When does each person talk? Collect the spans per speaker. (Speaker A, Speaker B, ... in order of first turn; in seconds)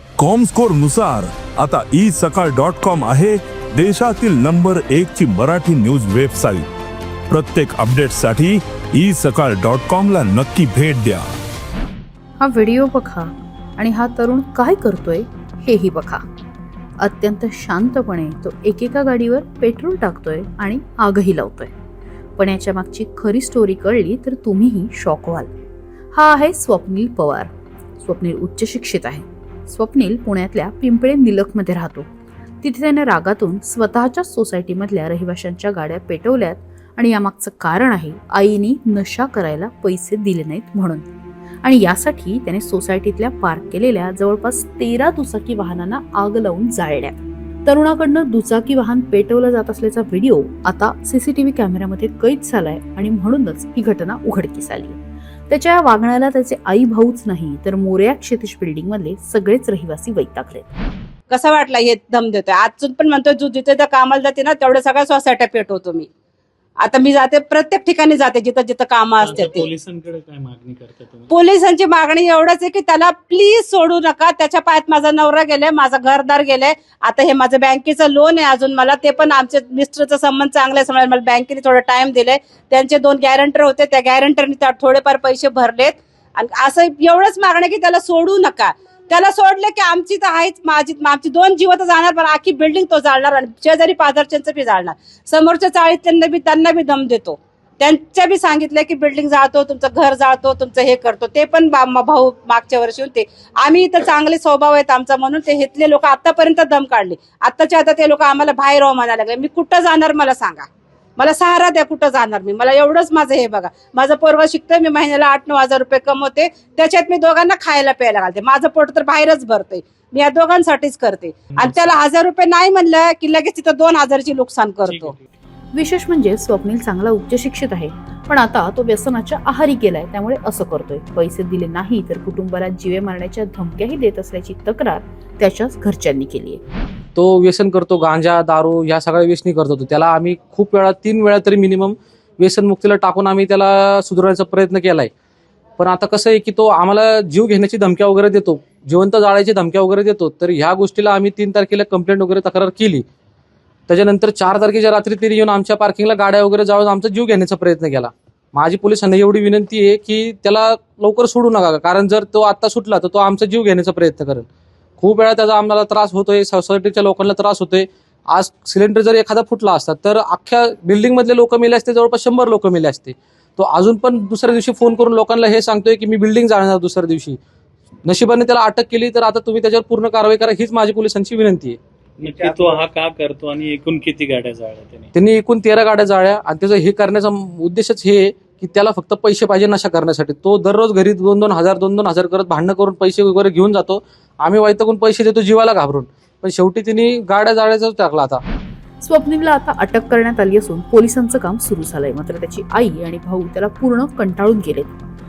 Speaker A: 0.2-6.6, 7.4-11.2
Speaker B: 12.4-16.2, 17.0-21.7, 22.4-25.5, 26.1-32.1, 32.6-41.0, 41.6-60.7, 125.7-136.6, 199.0-204.9
Speaker C: 61.3-66.1, 66.8-69.7, 71.3-125.1
Speaker D: 69.2-71.3, 121.5-122.0, 124.8-125.3, 182.2-185.1
Speaker E: 137.1-145.1, 145.8-153.0, 153.9-164.4, 165.0-177.4, 178.0-181.8, 185.1-198.4